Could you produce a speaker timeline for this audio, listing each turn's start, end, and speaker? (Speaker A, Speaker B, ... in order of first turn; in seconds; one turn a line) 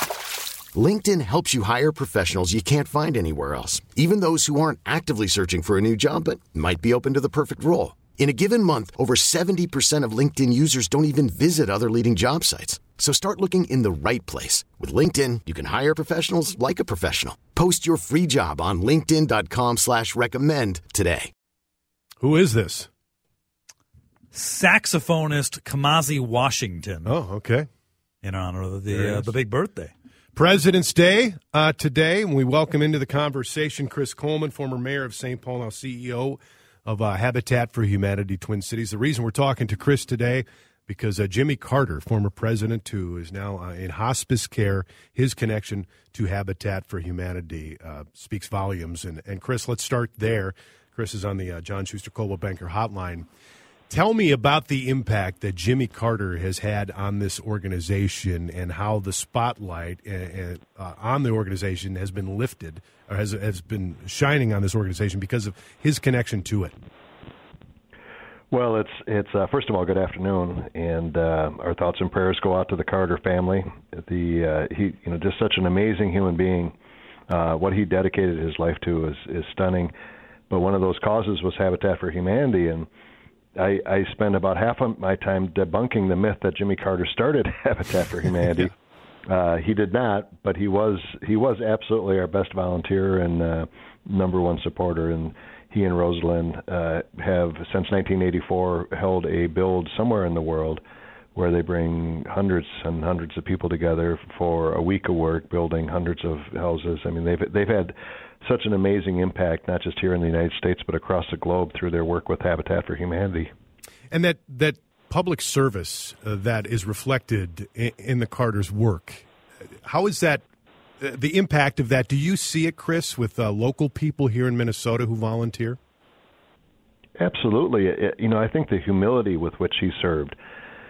Speaker A: 0.7-21.3
Speaker B: 22.2-22.9
Speaker C: 24.3-27.1
Speaker B: 27.0-27.7
Speaker C: 28.2-29.9
Speaker B: 28.9-29.3
Speaker B: 30.3-53.2
Speaker B: 53.9-66.7
Speaker D: 68.5-76.7
Speaker D: 77.3-79.9
Speaker D: 80.5-82.9
Speaker D: 83.5-88.7
Speaker D: 89.2-100.8
Speaker D: 101.3-113.5
Speaker B: 114.1-119.3
Speaker B: 119.8-120.4
Speaker B: 121.0-125.8
Speaker D: 127.2-130.3